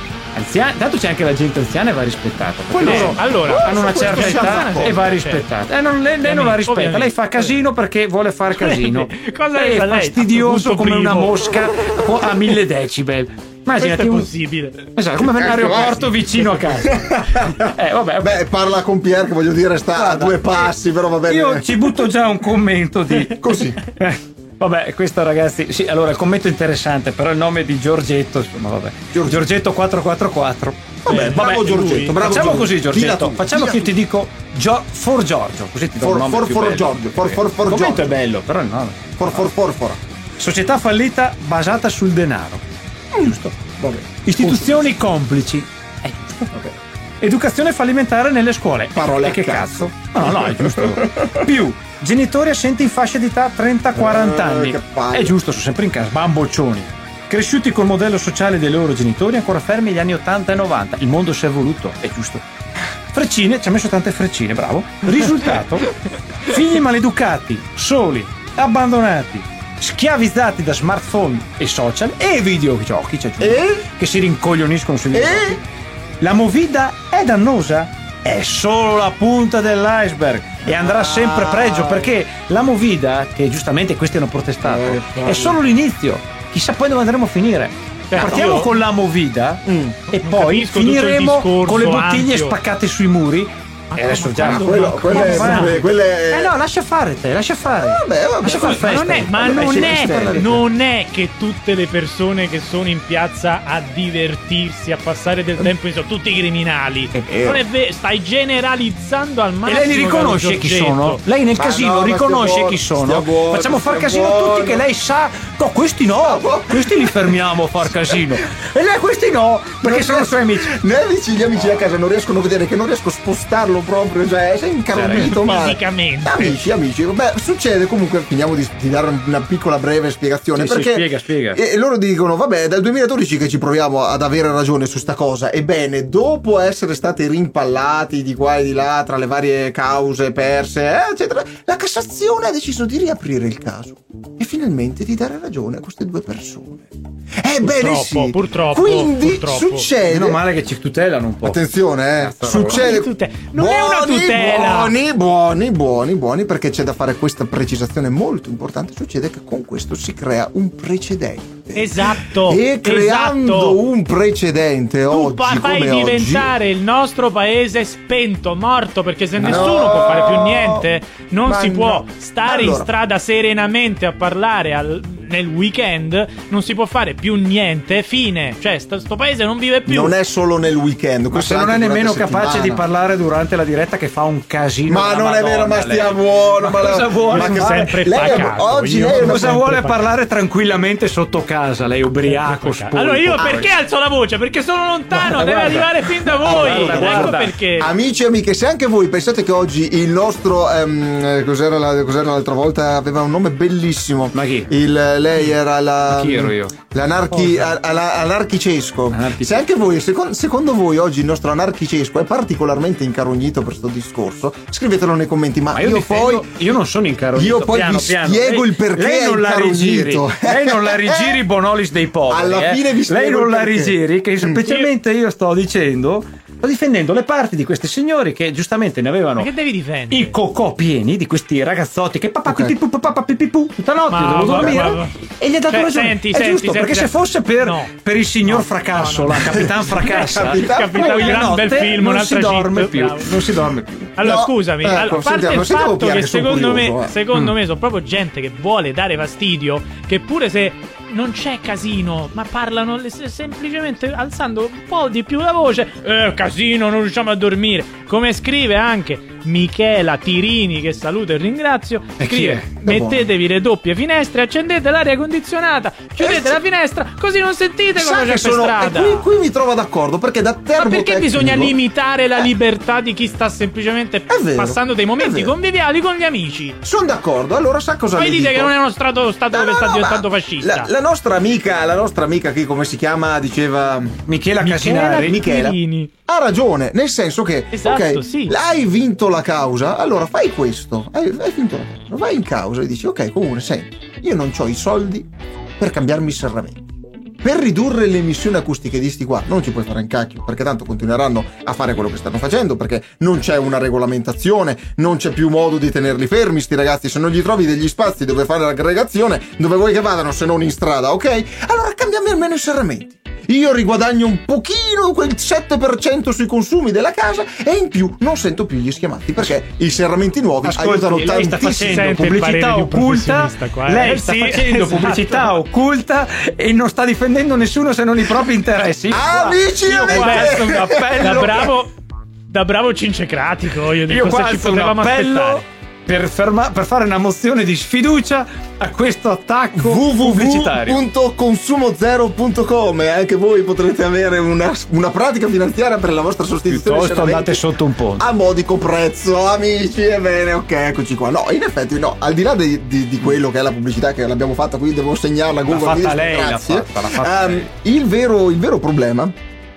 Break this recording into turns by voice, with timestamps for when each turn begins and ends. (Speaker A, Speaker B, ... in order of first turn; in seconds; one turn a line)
Speaker A: 0.3-14.3
Speaker B: 2.7-4.9
Speaker C: 2.8-5.4
Speaker C: 6.2-7.6
Speaker C: 8.5-11.7
Speaker C: 13.8-14.9
Speaker A: 14.9-18.4
Speaker B: 15.2-21.7
Speaker A: 19.9-20.7
Speaker A: 21.2-39.5
Speaker B: 23.1-23.8
Speaker B: 29.1-29.5
Speaker B: 31.0-34.0
Speaker C: 31.1-32.2
Speaker B: 36.0-38.1
Speaker B: 39.2-40.0
Speaker A: 40.4-42.6
Speaker B: 43.1-45.0
Speaker A: 43.2-46.5
Speaker A: 47.2-62.4
Speaker B: 48.9-51.5
Speaker B: 53.9-55.3
Speaker A: 63.1-75.6
Speaker B: 73.4-73.9
Speaker B: 75.1-75.6
Speaker A: 76.2-100.6
Speaker B: 80.7-82.2
Speaker B: 84.6-85.6
Speaker C: 88.1-88.7
Speaker B: 88.1-88.5
Speaker B: 89.6-90.0
Speaker C: 90.2-92.6
Speaker C: 93.9-95.9
Speaker B: 94.4-96.5
Speaker B: 97.8-100.6
Speaker C: 98.7-111.2
Speaker B: 107.1-107.6
Speaker A: 109.7-120.8
Speaker B: 111.5-114.8
Speaker B: 116.2-118.4
Speaker B: 119.8-150.4
Speaker A: 124.9-125.4
Speaker C: 125.3-126.6
Speaker A: 130.5-131.6
Speaker C: 147.6-149.9
Speaker A: 150.1-151.6
Speaker B: 151.4-166.5
Speaker A: 152.2-152.9
Speaker C: 152.6-154.9
Speaker C: 161.7-163.8
Speaker C: 165.1-180.1
Speaker B: 169.4-170.8
Speaker B: 171.4-172.9
Speaker B: 179.8-182.8
Speaker A: 181.3-188.5
Speaker B: 184.9-189.6
Speaker C: 187.3-190.0
Speaker A: 189.2-193.8
Speaker C: 192.2-198.0
Speaker A: 195.1-197.5
Speaker B: 196.2-216.6
Speaker A: 204.3-204.7
Speaker A: 206.1-206.7
Speaker C: 207.3-207.8
Speaker A: 209.1-209.7
Speaker A: 215.7-229.5
Speaker B: 217.3-221.4
Speaker B: 222.3-224.7
Speaker C: 229.3-230.3
Speaker A: 230.1-244.1
Speaker B: 232.4-232.7
Speaker C: 234.1-235.2
Speaker B: 234.4-234.8
Speaker C: 235.7-237.9
Speaker C: 238.4-243.3
Speaker B: 239.5-241.1
Speaker C: 244.2-269.3
Speaker B: 244.2-247.1
Speaker A: 262.2-262.7
Speaker B: 262.8-263.3
Speaker B: 266.2-266.6
Speaker B: 267.9-271.7
Speaker C: 270.8-276.8
Speaker B: 274.3-275.5
Speaker B: 276.8-278.7
Speaker C: 278.1-280.9
Speaker B: 279.5-284.2
Speaker A: 284.3-285.4
Speaker C: 284.6-286.1
Speaker B: 285.2-296.9
Speaker C: 287.7-288.5
Speaker B: 297.4-321.8
Speaker A: 320.6-331.7
Speaker C: 321.5-325.5
Speaker B: 329.1-331.6
Speaker C: 329.9-331.9
Speaker C: 332.5-335.6
Speaker A: 334.1-341.0
Speaker B: 339.7-359.3
Speaker A: 346.7-348.2
Speaker A: 355.7-357.7